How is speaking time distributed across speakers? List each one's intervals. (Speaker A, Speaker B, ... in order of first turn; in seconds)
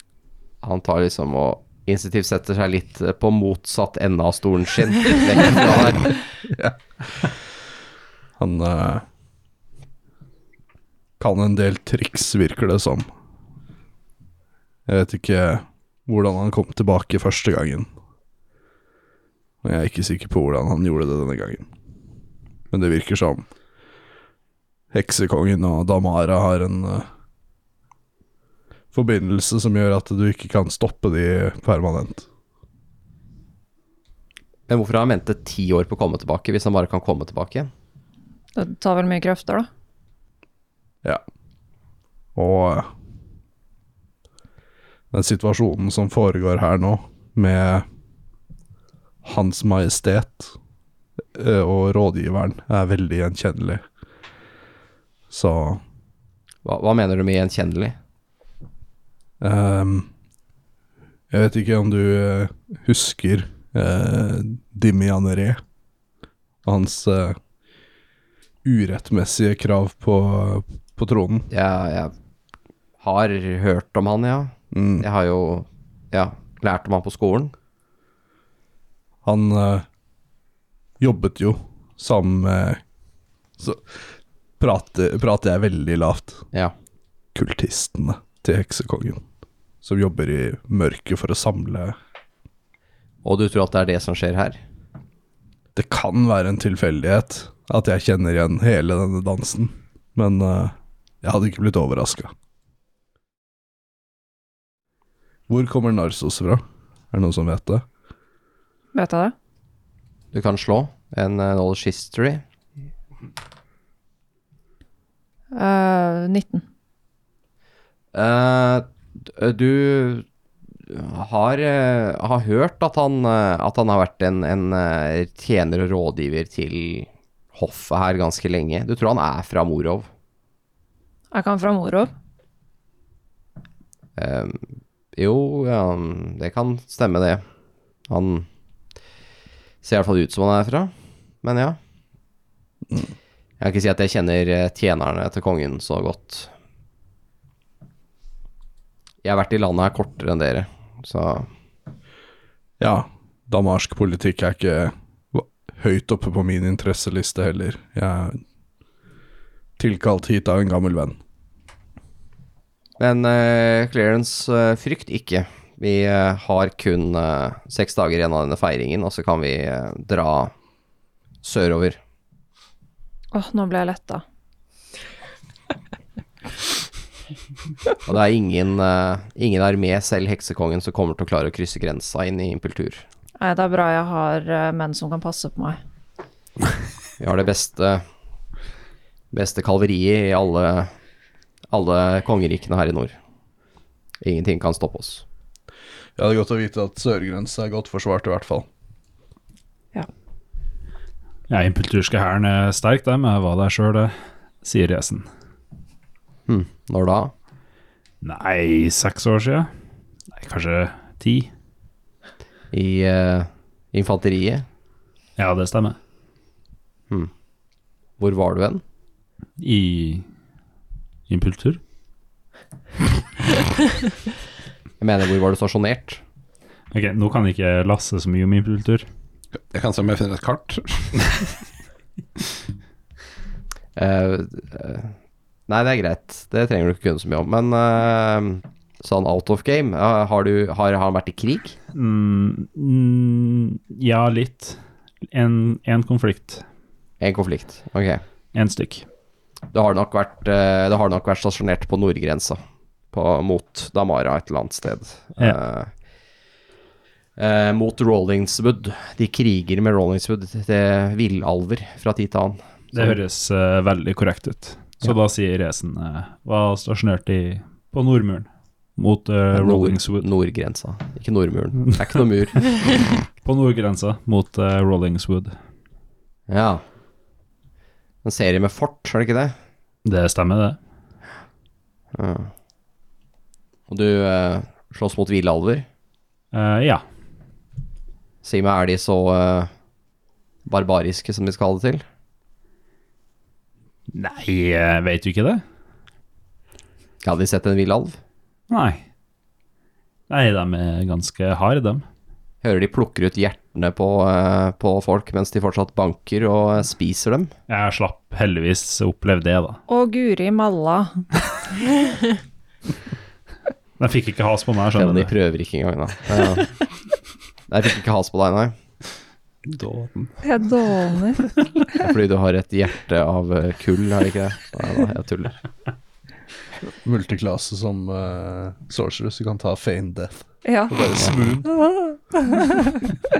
Speaker A: 0.6-6.2, 34.7-37.7, 56.6-58.0, 71.5-72.1, 73.0-77.5, 93.2-94.6, 110.3-112.4, 118.1-120.3, 120.9-130.1, 134.2-137.4, 138.1-138.5, 139.8-140.9, 141.4-141.8, 143.6-146.5, 149.2-151.5, 163.0-170.5, 171.4-172.0, 178.1-183.0, 187.2-188.0, 189.3-190.9, 191.7-193.2, 194.2-195.2, 206.5-207.3, 212.7-214.7, 218.2-218.8, 225.0-226.2, 234.0-235.2, 235.7-241.8, 247.2-248.2, 249.7-252.6, 253.1-255.9, 257.4-263.2, 269.5-272.9, 276.5-276.8, 278.2-279.6, 282.1-282.5, 283.9-285.9, 288.4-289.7, 290.7-292.0, 297.2-298.2, 302.6-307.5, 315.0-316.7, 317.7-318.8, 322.0-325.6
Speaker B: 6.5-7.4, 8.4-9.1, 11.2-13.1, 14.9-17.9, 19.6-21.7, 22.7-23.5, 24.9-27.1, 28.9-32.3, 42.4-42.9, 45.1-47.9, 49.2-50.5, 51.4-53.8, 55.3-55.8, 59.4-60.1, 61.3-65.6, 66.7-67.4, 68.7-71.5, 74.7-75.1, 79.2-79.8, 81.0-82.8, 83.6-86.4, 87.3-89.2, 89.8-92.0, 95.8-102.3, 105.5-107.8, 152.8-158.4, 159.8-161.2, 196.2-198.7, 326.9-331.9
Speaker C: 38.6-39.7, 108.9-109.3, 115.5-116.6, 131.3-132.1, 173.3-174.2, 183.4-185.8, 309.9-311.2, 320.4-321.6, 330.6-331.1, 331.6-333.0
Speaker D: 201.5-205.3, 208.2-209.7, 210.3-211.5, 215.4-216.0, 219.6-220.3, 221.3-221.8, 226.9-229.1, 241.9-244.8, 245.3-246.6, 248.5-249.1, 262.9-270.3, 273.4-275.6, 280.0-280.8, 286.5-287.0, 294.1-295.6, 298.7-299.1, 300.3-302.1, 307.7-309.8, 314.0-315.3
Speaker E: 229.6-231.5, 319.7-320.4